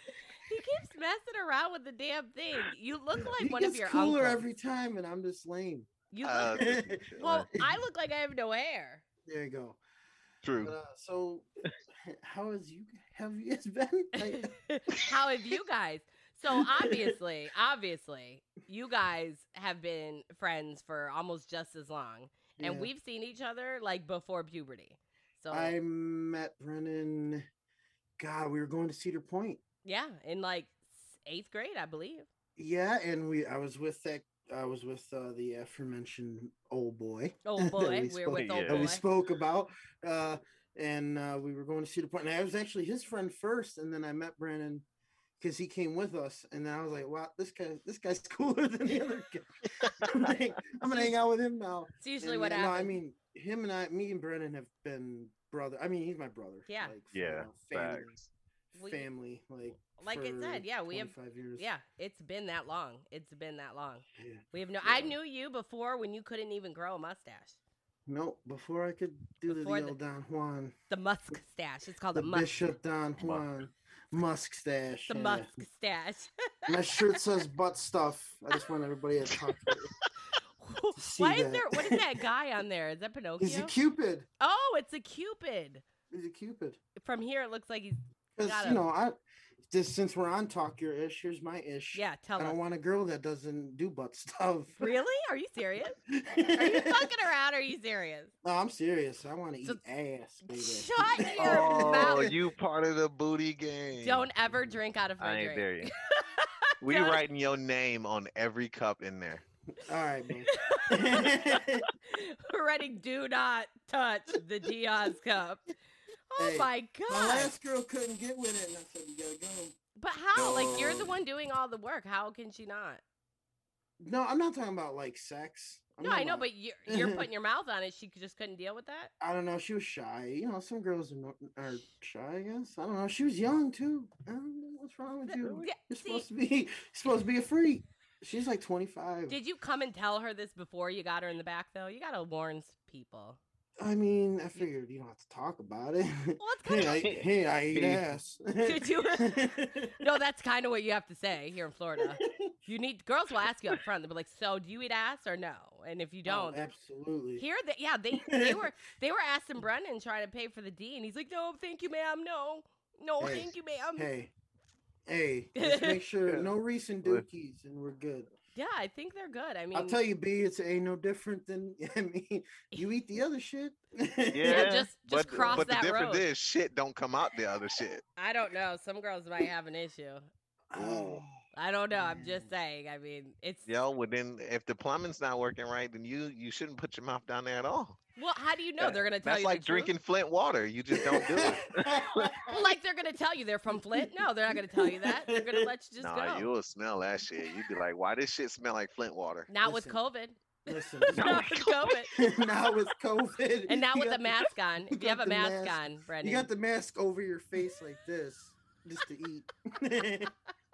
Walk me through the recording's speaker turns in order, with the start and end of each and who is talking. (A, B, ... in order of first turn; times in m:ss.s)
0:00.4-0:04.5 A
0:03.3-0:07.1 B
0:06.1-0:06.6 A
0:06.2-0:07.5 C
0:07.2-0:09.0 A
0:09.3-0:09.8 B
0:10.4-0:10.8 C
0:10.6-0:11.5 B
0:12.1-0:14.6 B
0:14.2-0:25.8 A
0:16.5-0:17.1 B
0:22.6-0:22.9 B
0:25.5-0:27.5 B
0:28.2-0:29.6 B
0:29.8-0:32.3 A
0:32.6-0:44.8 B
0:37.5-0:39.0 A
0:38.3-0:38.9 C
0:45.4-0:58.2 B
0:49.8-0:50.2 C
0:50.9-0:51.1 A
0:52.0-0:53.0 A
0:56.7-0:56.9 A
0:57.1-0:58.3 C
0:58.7-0:59.1 A
0:58.8-1:01.7 B
0:59.8-1:07.6 A
1:04.2-1:04.4 B
1:04.8-1:05.1 C
1:08.1-1:10.8 B
1:09.5-1:10.0 A
1:10.9-1:12.5 A
1:12.1-1:15.6 B
1:13.2-1:13.5 C
1:15.1-1:17.2 A
1:16.7-1:20.0 B
1:20.6-1:23.8 A
1:21.0-1:22.1 B
1:23.4-1:24.3 B
1:24.4-1:25.8 A
1:26.1-1:26.8 B
1:27.0-1:28.8 A
1:28.4-1:35.0 B
1:31.9-1:32.6 A
1:34.8-1:38.3 A
1:36.1-1:37.1 B
1:38.4-1:42.4 B
1:40.4-1:42.4 A
1:41.4-1:44.3 C
1:44.0-1:47.2 A
1:45.2-1:45.9 C
1:46.8-1:49.4 C
1:49.8-1:51.9 B
1:50.5-1:51.4 A
1:52.0-1:55.7 A
1:56.3-1:57.5 A
1:56.4-1:59.8 B
2:00.0-2:03.0 A
2:00.4-2:01.2 B
2:04.0-2:07.3 B
2:06.0-2:09.1 A
2:09.2-2:19.4 B
2:15.3-2:16.3 A
2:15.4-2:15.7 C
2:19.3-2:23.4 A
2:23.8-2:30.0 B
2:26.4-2:27.2 A
2:27.7-2:28.1 C
2:28.6-2:36.6 A
2:32.0-2:32.5 B
2:36.3-2:37.4 B
2:37.4-2:44.1 A
2:38.2-2:38.6 B
2:43.2-2:44.3 B
2:45.1-2:48.3 B
2:45.6-2:46.0 A
2:46.3-2:46.5 C
2:48.6-2:50.0 A
2:49.7-2:54.8 B
2:54.3-2:58.0 C
2:54.5-2:56.2 A
2:55.4-2:55.7 B
2:58.2-3:00.3 A
3:00.7-3:01.4 B
3:00.7-3:01.2 C
3:01.5-3:03.8 A
3:01.9-3:02.5 B
3:03.7-3:08.0 C
3:08.2-3:09.9 A
3:08.8-3:12.4 C
3:10.9-3:12.7 B
3:12.5-3:16.5 A
3:13.7-3:15.7 B
3:16.0-3:19.5 C
3:19.5-3:22.1 A
3:19.6-3:20.0 B
3:20.6-3:30.3 B
3:21.1-3:22.0 C
3:23.7-3:26.5 A